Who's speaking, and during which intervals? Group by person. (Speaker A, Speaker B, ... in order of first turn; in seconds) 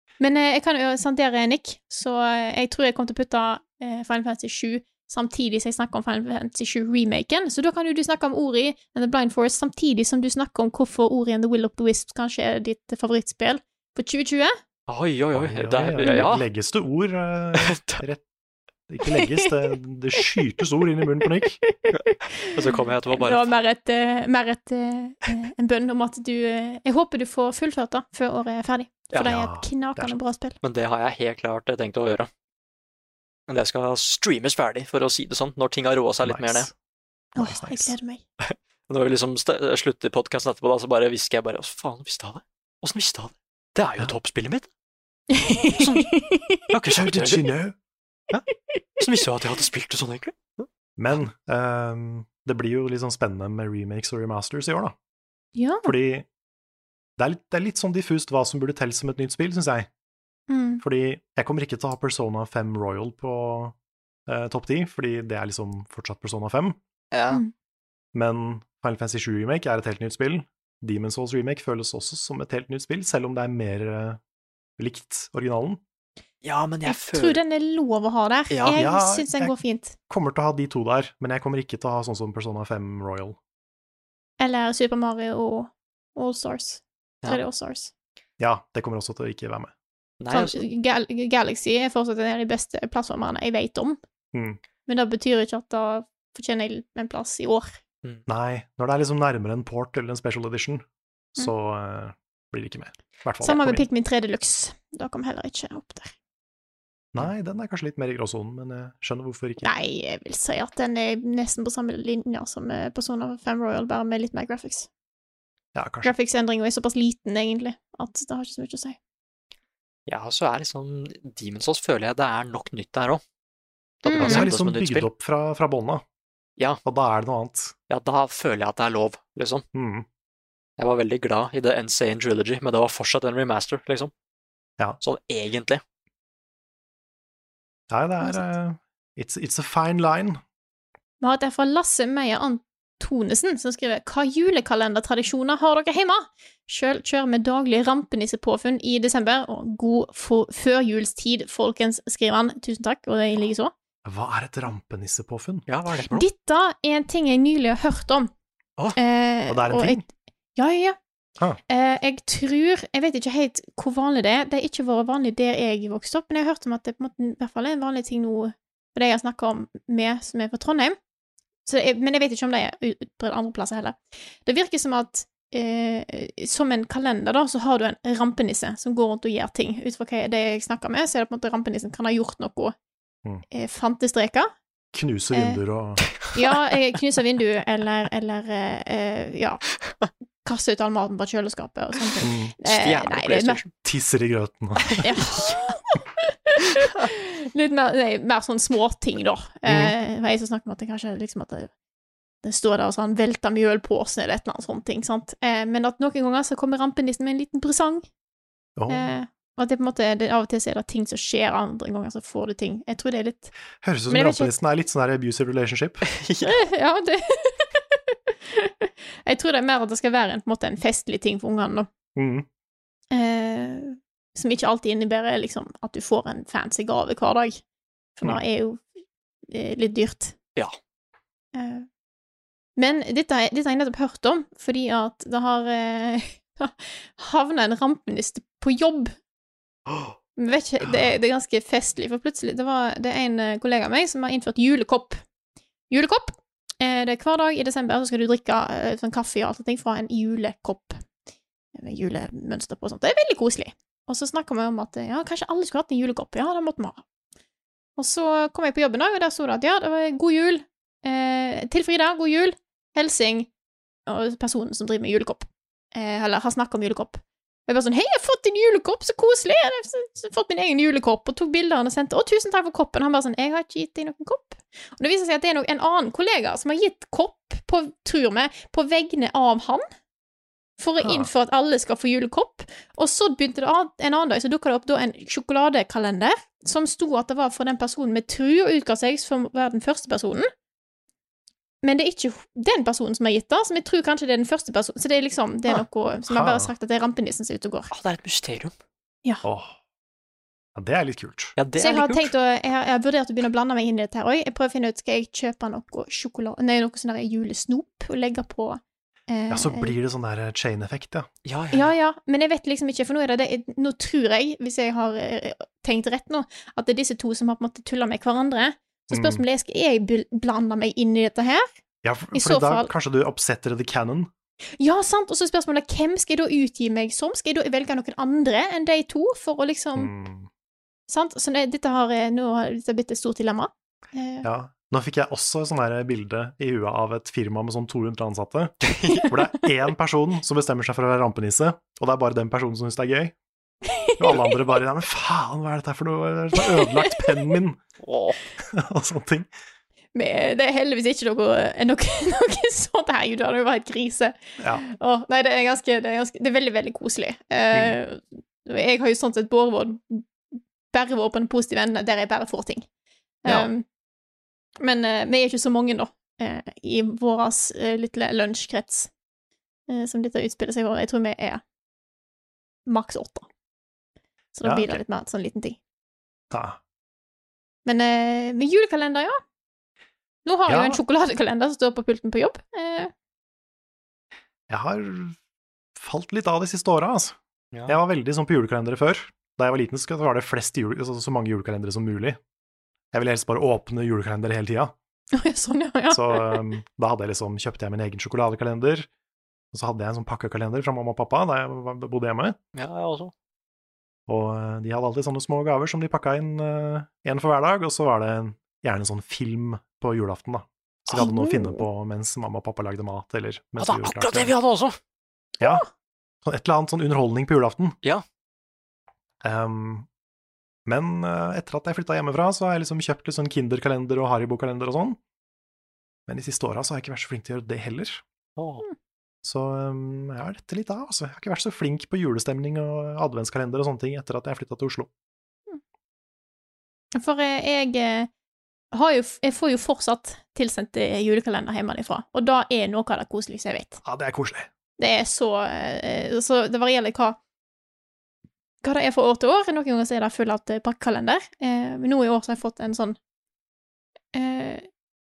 Speaker A: 0.2-14.5, 16.0-16.3, 19.1-19.8, 21.6-22.5, 23.1-30.6, 37.4-38.2, 45.3-46.6, 55.5-55.9, 60.5-60.8, 76.8-80.0, 84.4-87.9, 90.3-94.0, 94.8-97.8, 103.4-106.1, 109.6-114.9, 116.0-119.0, 124.0-124.5, 138.2-138.5, 141.2-153.7, 156.1-158.3, 158.9-160.0, 160.6-161.0, 161.7-171.0, 171.7-182.7, 183.5-184.5, 185.3-185.6, 186.3-189.6, 190.4-193.6, 195.0-201.7, 202.4-208.1, 208.9-213.5, 214.1-214.5, 216.4-221.9, 223.1-227.6, 228.2-228.9, 229.5-230.3, 231.5-231.9, 232.8-239.1, 240.4-245.2, 245.9-251.0, 251.8-257.0, 258.0-263.5, 264.1-279.8, 280.8-290.5, 291.8-297.9, 301.8-309.9, 311.7-321.7, 322.3-322.9, 324.8-330.1, 331.1-334.4, 343.9-344.5, 346.6-347.3, 350.1-360.3, 360.9-362.9, 363.4-363.8, 364.8-369.1, 369.9-371.6, 372.9-373.5, 374.5-375.8, 377.8-379.4, 380.4-383.1, 395.3-396.6, 411.1-411.8, 437.1-438.3, 438.9-444.0, 445.0-447.4, 448.8-453.2, 454.3-454.9
Speaker B: 14.9-16.4, 17.6-18.0, 22.5-23.5, 30.6-32.3, 33.5-36.7, 38.4-44.7, 45.8-46.1, 46.7-47.5, 49.0-50.6, 67.1-67.4, 76.4-77.4, 78.5-78.8, 90.2-90.6, 120.1-123.2, 124.0-125.1, 127.9-129.6, 130.8-134.1, 135.0-135.8, 155.7-156.2, 192.6-193.7, 216.1-216.5, 239.9-240.1, 297.9-298.7, 301.6-302.3, 311.4-311.9, 338.8-339.3, 348.0-348.4, 402.7-403.3, 413.8-415.0, 428.6-428.8
Speaker C: 15.3-18.2, 18.9-21.6, 29.2-30.1, 36.2-36.7, 37.3-37.9, 46.9-47.8, 51.0-54.9, 55.8-56.2, 57.2-59.9, 60.8-63.7, 64.3-66.8, 68.1-74.2, 74.8-75.8, 78.7-79.6, 80.1-83.4, 88.4-89.7, 94.3-94.6, 98.3-100.8, 101.3-103.8, 107.1-109.7, 115.7-116.1, 124.1-126.0, 126.8-127.7, 129.7-130.1, 137.9-140.4, 154.0-155.6, 159.5-160.0, 184.9-186.1, 192.2-192.5, 193.8-195.1, 199.7-199.9, 208.8-209.1, 213.8-216.1, 222.2-222.5, 240.8-241.1, 281.0-281.3, 295.7-296.7, 299.4-299.8, 300.7-301.6, 309.5-311.3, 319.1-319.4, 322.0-324.3, 329.9-330.5, 334.4-343.3, 344.2-347.8, 348.7-349.5, 354.6-354.8, 374.6-375.0, 376.5-376.8, 380.7-381.0, 384.7-385.4, 385.9-392.4, 393.1-394.9, 396.1-399.1, 399.7-402.6, 404.3-414.5, 415.6-415.8, 416.4-417.9, 419.4-420.1, 420.9-425.2, 426.3-428.2, 429.4-435.1, 444.0-444.7